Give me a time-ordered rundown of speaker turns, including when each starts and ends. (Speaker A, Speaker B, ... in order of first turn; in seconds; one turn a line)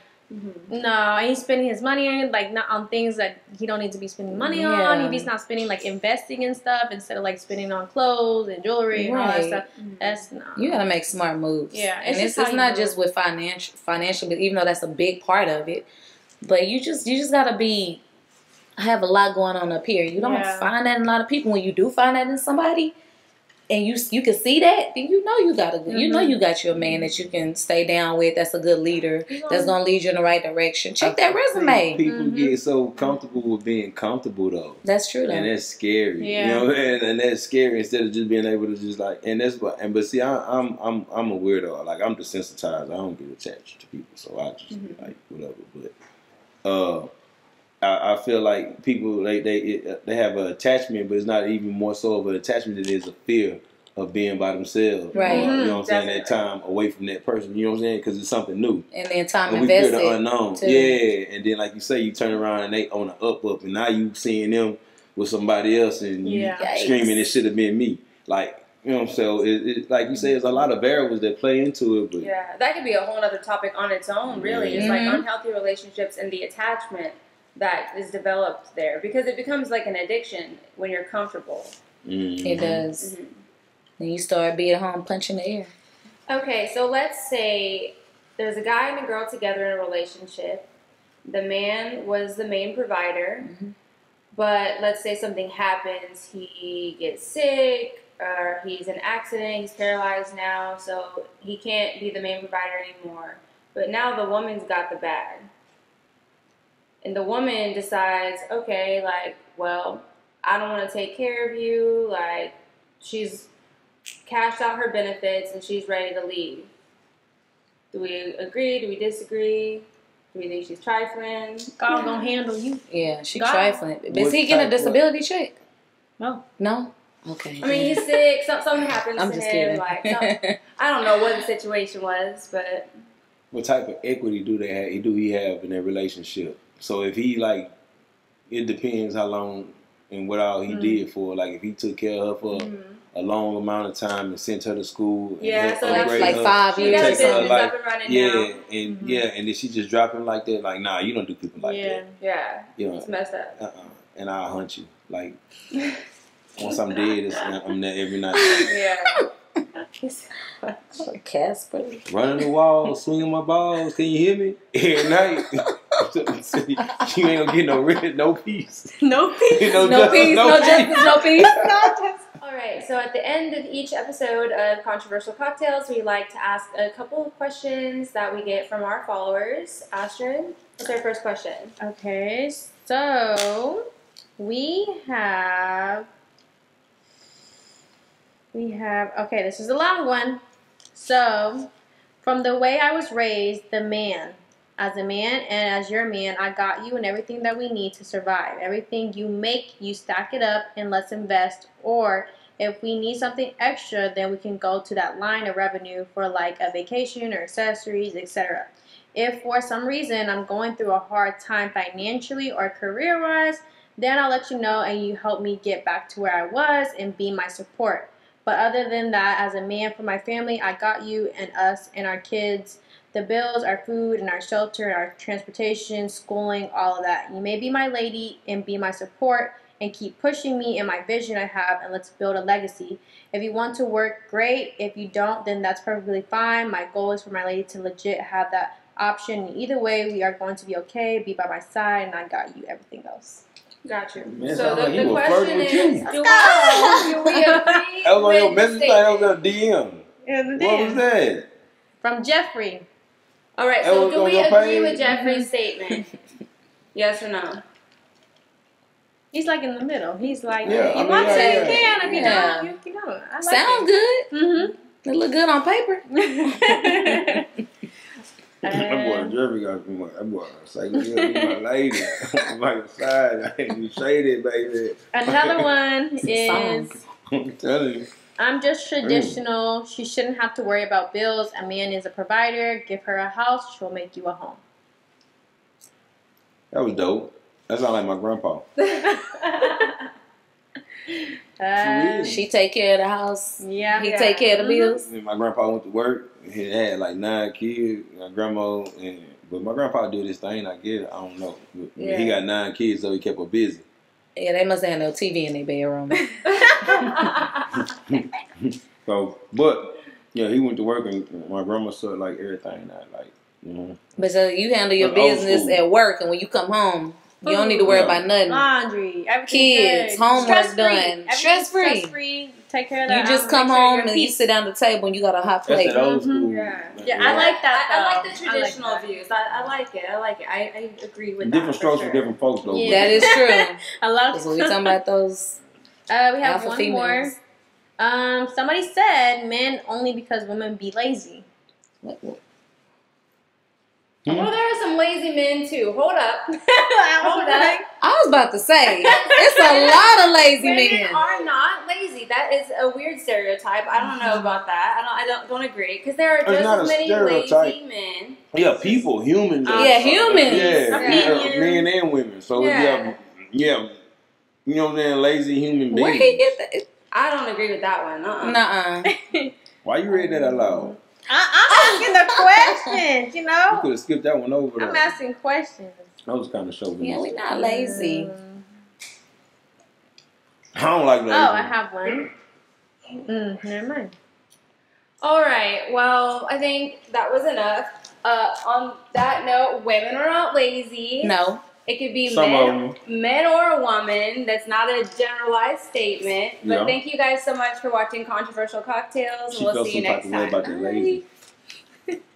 Speaker A: 0.3-0.7
Speaker B: 0.7-10.8
Speaker C: 4.5-5.3
Speaker C: 8.9-9.6
Speaker A: 9.8-10.2
Speaker C: 10.6-15.8
Speaker B: 11.7-13.0
Speaker C: 16.4-18.0
Speaker C: 18.8-22.9
Speaker B: 20.2-20.7
Speaker C: 23.7-32.0
Speaker B: 25.9-26.4
Speaker B: 29.3-29.7
Speaker D: 31.0-45.9
Speaker B: 32.0-33.2
Speaker C: 34.8-35.5
Speaker B: 36.2-36.6
Speaker A: 44.7-45.1
Speaker D: 46.6-47.1
Speaker D: 47.8-58.9
Speaker A: 55.1-56.5
Speaker C: 55.1-55.5
Speaker B: 55.2-55.8
Speaker C: 58.9-61.0
Speaker D: 59.5-72.3
Speaker B: 66.2-66.7
Speaker C: 66.6-67.2
Speaker A: 72.2-81.8
Speaker D: 74.3-75.0
Speaker C: 74.7-75.2
Speaker D: 82.0-82.8
Speaker C: 82.4-83.1
Speaker A: 83.0-83.4
Speaker C: 84.0-85.7
Speaker A: 86.3-90.7
Speaker A: 91.2-93.5
Speaker C: 93.4-93.7
Speaker A: 94.3-105.5
Speaker A: 107.0-113.5
Speaker A: 114.2-116.7
Speaker A: 117.9-122.3
Speaker B: 121.8-123.8
Speaker C: 122.9-125.5
Speaker D: 124.1-125.0
Speaker C: 126.6-128.0
Speaker A: 127.6-132.9
Speaker C: 129.2-130.5
Speaker D: 133.5-137.7
Speaker D: 138.5-152.0
Speaker B: 140.7-141.0
Speaker A: 142.5-143.0
Speaker A: 145.4-148.5
Speaker C: 145.8-147.6
Speaker B: 148.8-149.2
Speaker B: 151.6-152.1
Speaker A: 152.2-153.6
Speaker D: 152.8-155.4
Speaker D: 156.6-158.7
Speaker A: 156.6-157.5
Speaker C: 158.3-158.7
Speaker A: 158.6-159.2
Speaker B: 160.0-161.0
Speaker C: 161.0-162.5
Speaker D: 162.1-169.0
Speaker C: 165.1-165.4
Speaker B: 169.0-172.2
Speaker D: 169.6-171.5
Speaker C: 169.8-171.6
Speaker A: 172.4-181.7
Speaker B: 181.8-183.8
Speaker B: 184.4-186.1
Speaker B: 188.5-190.4
Speaker B: 190.9-191.7
Speaker B: 192.2-243.4
Speaker A: 243.8-249.4
Speaker D: 244.2-246.1
Speaker B: 246.0-247.8
Speaker C: 246.6-247.1
Speaker D: 248.0-250.0
Speaker B: 250.2-251.0
Speaker D: 250.6-251.5
Speaker B: 252.0-252.8
Speaker A: 253.6-256.0
Speaker D: 253.8-255.1
Speaker A: 256.9-257.6
Speaker B: 259.3-264.7
Speaker D: 260.6-261.9
Speaker C: 260.6-262.7
Speaker C: 263.4-264.3
Speaker C: 265.0-266.0
Speaker B: 266.1-267.4
Speaker B: 268.6-269.4
Speaker D: 268.6-275.7
Speaker B: 270.9-272.1
Speaker B: 275.1-277.0
Speaker C: 276.2-277.0
Speaker D: 277.3-278.1
Speaker B: 278.4-284.6
Speaker D: 279.0-279.4
Speaker D: 286.7-288.6
Speaker A: 288.8-289.8
Speaker B: 291.6-292.4
Speaker D: 291.7-292.4
Speaker C: 292.2-295.1
Speaker B: 293.6-294.6
Speaker A: 294.2-294.9
Speaker D: 295.0-303.8
Speaker A: 302.0-302.4
Speaker C: 304.4-306.2
Speaker A: 306.5-307.7
Speaker D: 308.1-314.0
Speaker C: 314.2-318.6
Speaker D: 315.0-315.9
Speaker B: 317.4-324.4
Speaker D: 317.9-318.2
Speaker C: 319.5-322.1
Speaker C: 323.1-326.0
Speaker D: 325.6-327.5
Speaker B: 325.9-329.1
Speaker A: 326.5-332.3
Speaker D: 331.4-333.4
Speaker B: 332.6-334.9
Speaker C: 332.9-333.8
Speaker C: 334.3-335.6
Speaker B: 336.1-337.4
Speaker C: 336.4-337.4
Speaker B: 338.0-341.4
Speaker C: 342.0-342.4
Speaker D: 344.2-344.5
Speaker A: 344.3-346.5
Speaker B: 346.9-347.9
Speaker A: 347.2-347.8
Speaker C: 348.0-351.2
Speaker A: 349.0-358.4
Speaker B: 353.9-354.6
Speaker D: 356.4-357.8
Speaker D: 358.5-363.9
Speaker B: 359.6-361.9
Speaker C: 359.7-360.9
Speaker A: 360.8-361.5
Speaker A: 362.6-363.2
Speaker D: 364.6-366.5
Speaker C: 365.9-366.9
Speaker A: 367.1-368.6
Speaker C: 368.4-369.1
Speaker B: 369.1-369.5
Speaker D: 369.8-370.9
Speaker B: 370.1-373.9
Speaker C: 371.7-372.9
Speaker D: 373.7-375.1
Speaker B: 374.8-376.1
Speaker D: 376.2-377.3
Speaker C: 377.0-378.3
Speaker B: 377.5-378.6
Speaker D: 380.7-381.8
Speaker B: 381.3-382.3
Speaker B: 383.2-384.1
Speaker A: 385.2-400.8
Speaker C: 391.2-391.6
Speaker D: 392.2-393.0
Speaker D: 396.6-397.0
Speaker D: 399.5-401.2
Speaker B: 400.7-401.1